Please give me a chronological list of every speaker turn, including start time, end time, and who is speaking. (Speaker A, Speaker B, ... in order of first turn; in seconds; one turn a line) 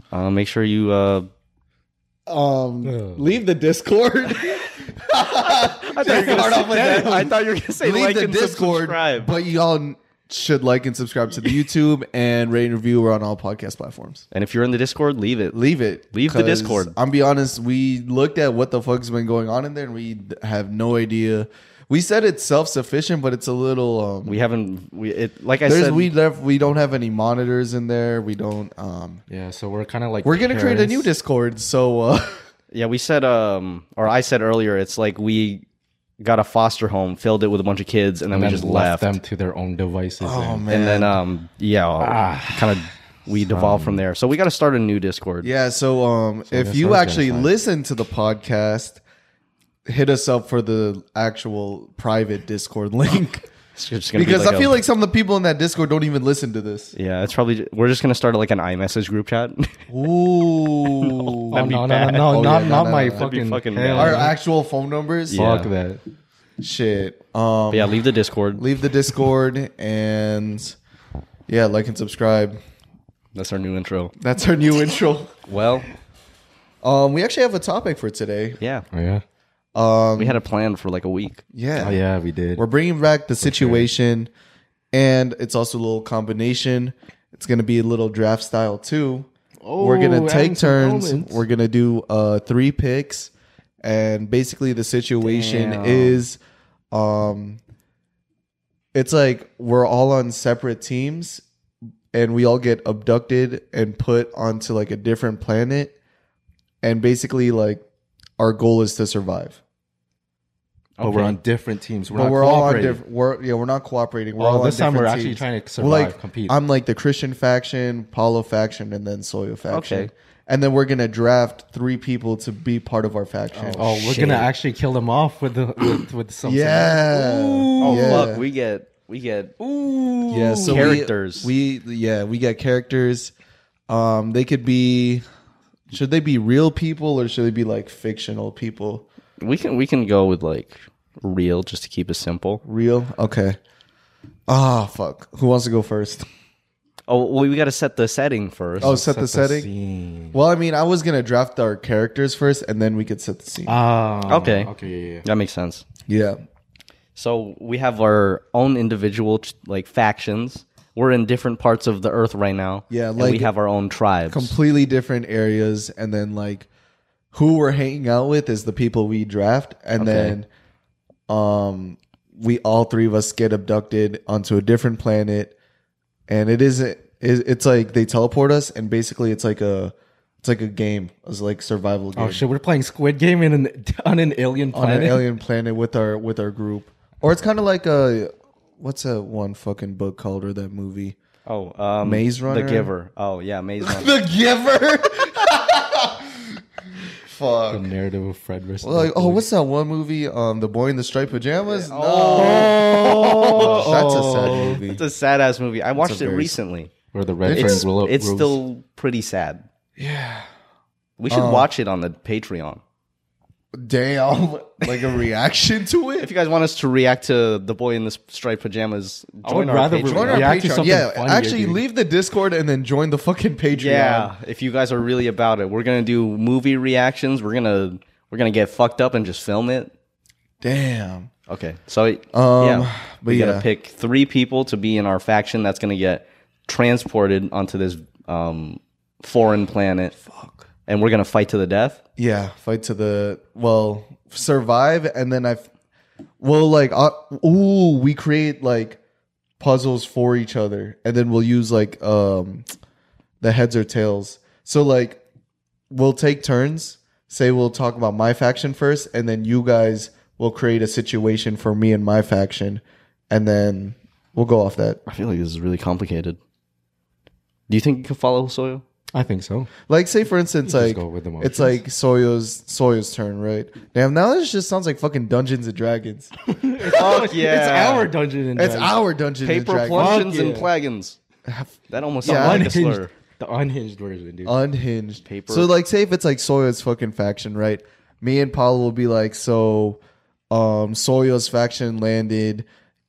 Speaker A: 0.1-1.3
Speaker B: 2.3-14.2
Speaker C: 2.8-3.2
Speaker A: 5.3-9.3
Speaker C: 6.1-6.4
Speaker A: 14.3-15.6
Speaker B: 15.5-24.4
Speaker A: 16.1-16.9
Speaker A: 24.2-26.1
Speaker B: 25.6-29.2
Speaker C: 29.3-31.1
Speaker B: 30.2-32.4
Speaker A: 32.7-35.6
Speaker A: 36.2-39.1
Speaker C: 38.3-40.7
Speaker B: 40.2-41.2
Speaker A: 40.7-45.5
Speaker C: 42.0-42.9
Speaker C: 43.5-44.0
Speaker B: 45.4-49.0
Speaker C: 46.5-47.5
Speaker B: 49.9-53.5
Speaker A: 53.8-54.8
Speaker B: 54.1-56.9
Speaker A: 56.9-59.8
Speaker B: 59.9-61.6
Speaker A: 61.0-62.4
Speaker C: 61.5-64.3
Speaker B: 62.2-63.3
Speaker A: 63.1-64.3
Speaker B: 63.9-65.4
Speaker A: 65.3-65.7
Speaker C: 65.3-66.0
Speaker B: 66.6-68.0
Speaker A: 67.7-68.6
Speaker B: 68.6-70.8
Speaker B: 71.5-72.6
Speaker A: 73.3-74.1
Speaker B: 74.2-75.3
Speaker A: 75.5-75.9
Speaker B: 76.8-78.6
Speaker A: 78.6-78.9
Speaker C: 78.9-79.2
Speaker B: 79.8-80.4
Speaker A: 80.2-81.4
Speaker B: 81.5-82.0
Speaker C: 81.8-82.6
Speaker B: 82.6-84.3
Speaker C: 83.4-83.9
Speaker B: 84.9-93.3
Speaker C: 89.6-91.4
Speaker B: 93.8-96.4
Speaker A: 95.2-96.2
Speaker B: 96.9-97.6
Speaker B: 98.9-101.4
Speaker B: 102.1-106.0
Speaker B: 106.8-107.8
Speaker B: 108.4-109.6
Speaker A: 111.0-111.4
Speaker C: 111.0-113.0
Speaker B: 112.1-123.8
Speaker C: 114.4-116.6
Speaker A: 119.7-120.1
Speaker C: 123.7-128.3
Speaker A: 123.7-124.5
Speaker B: 126.4-128.4
Speaker A: 127.8-129.5
Speaker C: 129.6-131.0
Speaker B: 130.3-133.3
Speaker A: 130.6-131.5
Speaker B: 133.9-135.2
Speaker B: 135.9-139.1
Speaker A: 139.4-142.6
Speaker B: 142.7-143.6
Speaker B: 144.5-146.2
Speaker A: 147.1-148.9
Speaker C: 148.8-150.4
Speaker B: 148.8-149.7
Speaker B: 150.3-153.8
Speaker C: 153.7-155.2
Speaker A: 154.3-154.7
Speaker A: 155.2-155.8
Speaker B: 156.1-156.4
Speaker A: 157.2-164.6
Speaker B: 162.9-163.5
Speaker B: 164.3-166.7
Speaker B: 167.3-170.5
Speaker A: 170.0-170.4
Speaker B: 171.3-175.6
Speaker B: 176.3-182.4
Speaker C: 182.2-185.3
Speaker B: 184.7-191.2
Speaker A: 191.5-194.1
Speaker B: 192.0-192.9
Speaker B: 193.8-197.9
Speaker C: 197.7-199.4
Speaker B: 198.8-205.0
Speaker A: 201.6-203.9
Speaker C: 202.4-204.8
Speaker A: 204.5-206.9
Speaker B: 206.0-206.6
Speaker C: 207.1-208.6
Speaker B: 207.4-207.9
Speaker A: 207.5-209.7
Speaker B: 210.0-210.5
Speaker A: 211.2-212.8
Speaker B: 211.3-211.7
Speaker B: 213.7-216.3
Speaker A: 216.2-220.6
Speaker C: 219.4-221.8
Speaker B: 220.0-224.3
Speaker A: 223.7-229.9
Speaker B: 230.6-231.3
Speaker A: 231.5-240.2
Speaker B: 232.3-233.7
Speaker B: 240.2-240.7
Speaker A: 240.9-242.0
Speaker B: 242.2-245.7
Speaker B: 246.4-249.0
Speaker B: 249.6-252.7
Speaker B: 253.4-255.2
Speaker B: 255.9-265.0
Speaker A: 265.1-266.4
Speaker A: 267.7-268.8
Speaker C: 269.1-269.7
Speaker B: 269.9-276.3
Speaker C: 270.7-271.8
Speaker C: 276.4-279.0
Speaker A: 276.9-278.1
Speaker B: 278.6-280.2
Speaker A: 279.4-281.2
Speaker C: 279.9-280.7
Speaker B: 281.4-282.8
Speaker A: 281.9-283.1
Speaker C: 282.2-284.6
Speaker B: 284.5-292.7
Speaker A: 285.2-285.7